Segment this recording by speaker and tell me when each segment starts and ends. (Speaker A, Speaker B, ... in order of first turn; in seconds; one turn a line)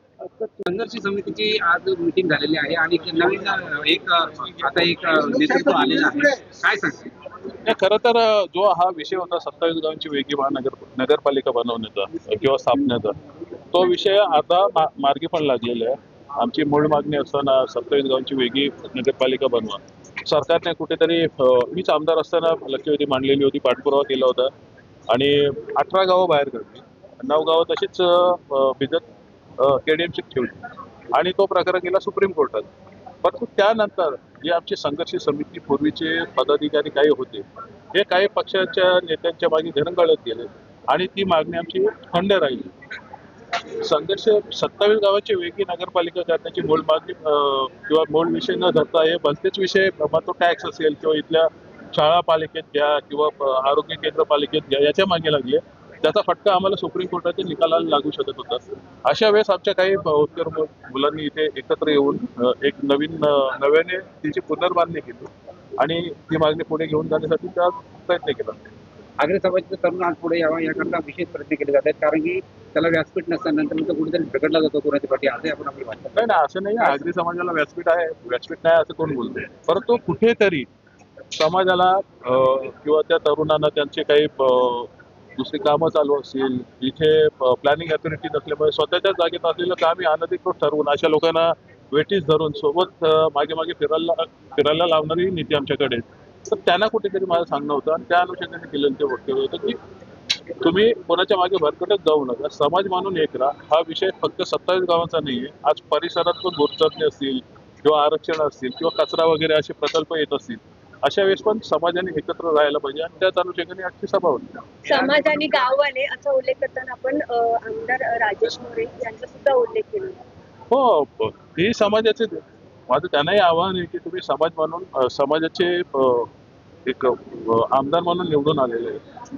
Speaker A: 0.2-7.1
Speaker B: 7.6-13.2
Speaker B: 13.7-24.5
Speaker B: 25.1-29.1
Speaker B: 29.6-30.6
Speaker B: 31.1-32.7
Speaker B: 33.2-42.7
Speaker B: 43.8-68.7
Speaker A: 69.2-77.0
Speaker B: 76.1-80.7
Speaker B: 81.3-99.8
Speaker B: 100.6-114.7
Speaker C: 114.8-120.2
Speaker B: 120.7-126.3
Speaker B: 126.8-129.0